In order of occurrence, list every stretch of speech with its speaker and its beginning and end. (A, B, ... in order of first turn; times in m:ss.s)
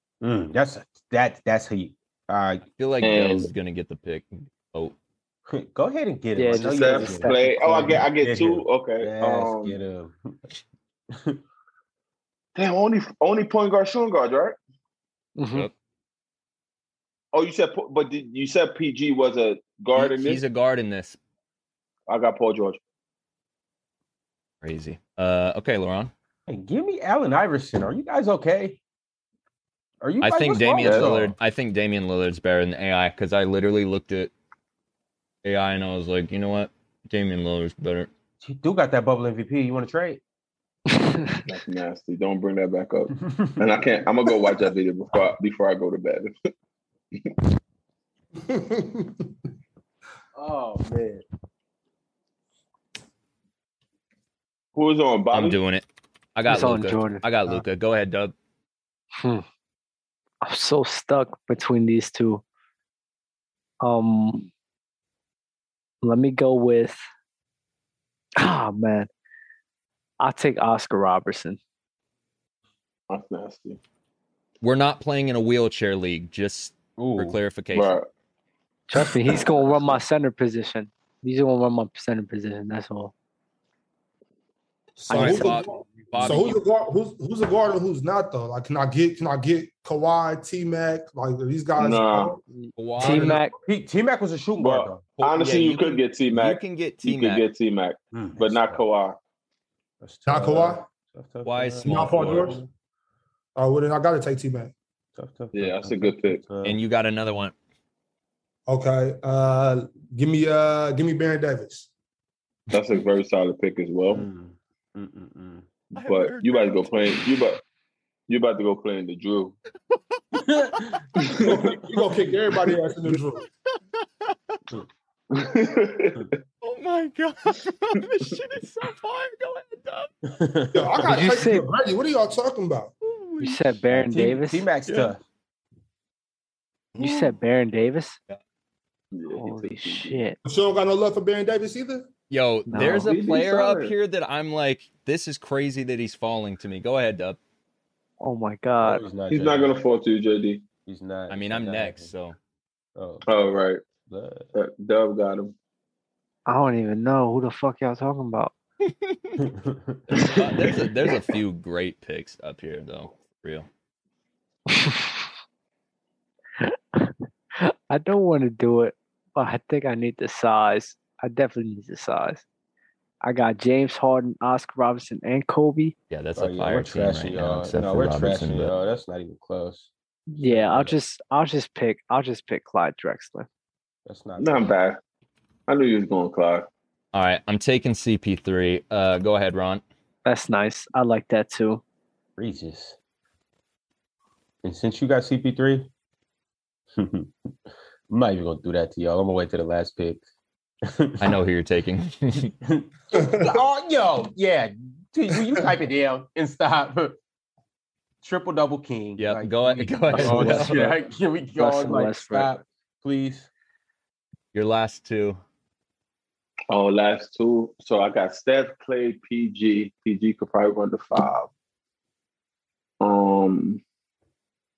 0:00.2-0:02.6 A
0:02.8-0:04.9 B
0:03.0-0:03.5 C
0:05.5-0:10.5 A
0:06.4-0:08.0 D
0:06.5-0:09.8 C
0:11.1-0:11.4 A
0:12.6-0:14.6 C
0:15.4-0:15.7 D
0:17.3-0:20.4 C
0:20.0-0:21.2 B
0:22.1-0:22.8 C
0:24.6-0:26.1 B
0:26.5-0:28.8 A
0:30.0-0:31.4 A
0:30.2-0:34.3 B
0:30.8-0:31.2 C
0:35.4-0:38.1 B
0:38.4-0:40.2 A
0:40.9-0:41.4 D
0:41.4-0:46.3 C
0:43.3-0:43.6 A
0:48.4-0:49.3 E
0:50.4-0:51.2 A
0:54.7-0:55.6 C
0:55.3-0:58.3 B
0:56.4-0:57.2 D
0:59.2-0:59.4 D
1:00.4-1:02.4 D
1:03.8-1:04.5 D
1:06.0-1:07.0 D
1:08.4-1:09.1 D
1:10.2-1:11.6 D
1:13.1-1:13.8 C
1:14.6-1:17.9 B
1:17.0-1:17.4 A
1:17.7-1:18.1 C
1:18.9-1:23.1 D
1:25.0-1:32.4 E
1:25.1-1:25.6 D
1:25.1-1:26.6 B
1:31.8-1:32.4 C
1:32.5-1:33.5 D
1:32.8-1:33.4 B
1:33.6-1:35.1 A
1:34.6-1:39.2 C
1:35.2-1:37.4 B
1:38.1-1:38.8 A
1:40.0-1:42.7 A
1:40.3-1:40.8 E
1:41.4-1:42.6 B
1:41.8-1:42.6 E
1:43.6-1:44.7 E
1:45.2-1:46.8 A
1:45.5-1:46.4 C
1:46.6-1:47.5 B
1:48.7-1:51.9 E
1:52.7-1:54.2 C
1:54.1-1:55.7 A
1:56.0-1:57.3 B
1:56.0-1:57.6 C
1:58.3-1:59.6 C
1:59.9-2:01.3 B
2:00.4-2:01.0 A
2:01.1-2:01.7 C
2:01.4-2:03.4 E
2:03.7-2:04.6 B
2:05.3-2:06.3 C
2:06.6-2:10.3 B
2:10.3-2:11.1 A
2:10.7-2:12.9 E
2:11.0-2:11.7 D
2:13.0-2:13.6 B
2:13.4-2:14.6 D
2:13.9-2:15.2 A
2:14.8-2:15.1 B
2:16.9-2:17.3 B
2:17.0-2:18.2 D
2:19.1-2:20.2 C
2:19.3-2:20.4 D
2:20.4-2:22.1 E
2:22.3-2:27.4 B
2:22.7-2:23.1 D
2:22.7-2:23.9 C
2:28.2-2:29.0 D
2:28.8-2:29.7 A
2:29.3-2:30.7 C
2:30.8-2:32.1 A
2:31.3-2:32.4 B
2:33.0-2:33.5 A
2:33.3-2:33.8 C
2:34.0-2:34.5 A
2:34.5-2:35.5 C
2:36.5-2:38.5 D
2:38.8-2:39.4 B
2:39.4-2:40.2 A
2:40.1-2:43.7 B
2:44.7-2:45.2 D
2:46.6-2:52.4 D
2:53.2-2:55.9 D
2:56.1-2:58.8 B
2:56.4-2:59.9 A
3:00.3-3:03.5 D
3:00.4-3:01.0 A
3:04.0-3:04.7 A
3:04.4-3:05.0 C
3:05.7-3:06.7 C
3:07.1-3:09.8 B
3:10.2-3:11.8 D
3:12.4-3:13.0 A
3:14.6-3:15.9 A
3:17.0-3:17.3 A
3:18.1-3:20.2 A
3:20.8-3:21.4 A
3:21.2-3:22.5 B
3:22.6-3:27.2 A
3:23.1-3:23.6 E
3:28.2-3:33.5 A
3:29.2-3:31.0 B
3:30.1-3:30.9 D
3:31.6-3:32.5 D
3:34.5-3:35.4 B
3:36.7-3:41.5 C
3:43.0-3:43.8 C